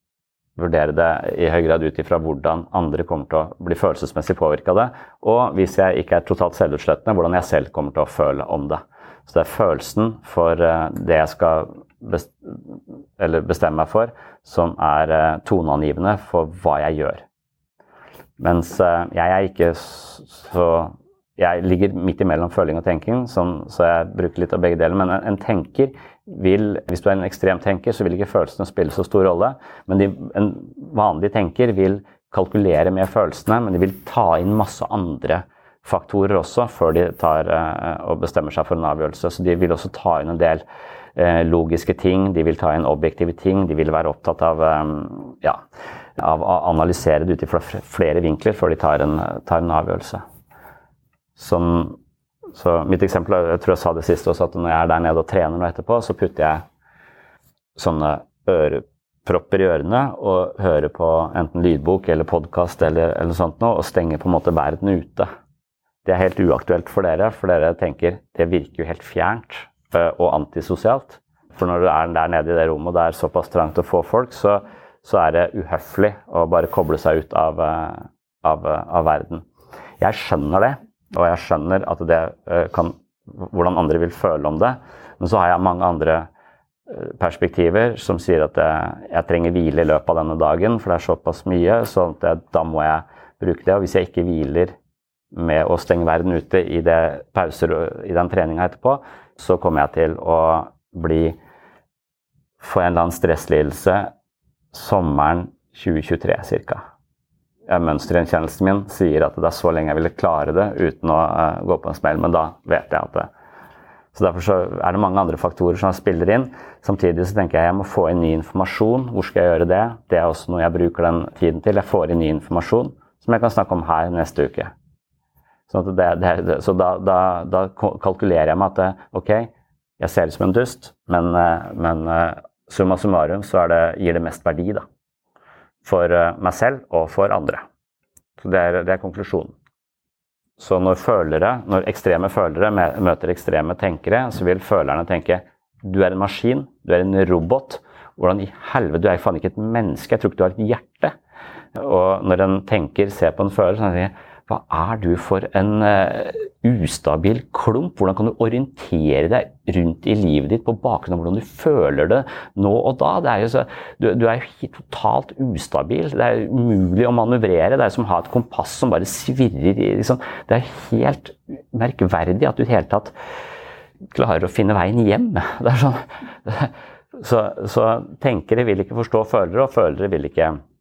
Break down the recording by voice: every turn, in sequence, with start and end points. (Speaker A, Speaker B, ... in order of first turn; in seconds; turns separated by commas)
Speaker A: 0.6-17.2, Speaker A: 18.4-40.6, Speaker A: 41.1-45.6, Speaker A: 46.2-50.2, Speaker A: 51.4-52.0, Speaker A: 52.5-56.6, Speaker A: 57.8-65.3, Speaker A: 66.0-79.4, Speaker A: 80.0-86.3, Speaker A: 86.9-94.7, Speaker A: 95.3-101.4, Speaker A: 102.6-104.1, Speaker A: 104.7-106.8, Speaker A: 107.7-113.3, Speaker A: 114.1-124.7, Speaker A: 125.7-134.8, Speaker A: 135.8-137.6, Speaker A: 138.4-139.5, Speaker A: 140.6-151.1, Speaker A: 151.7-173.1, Speaker A: 174.1-180.6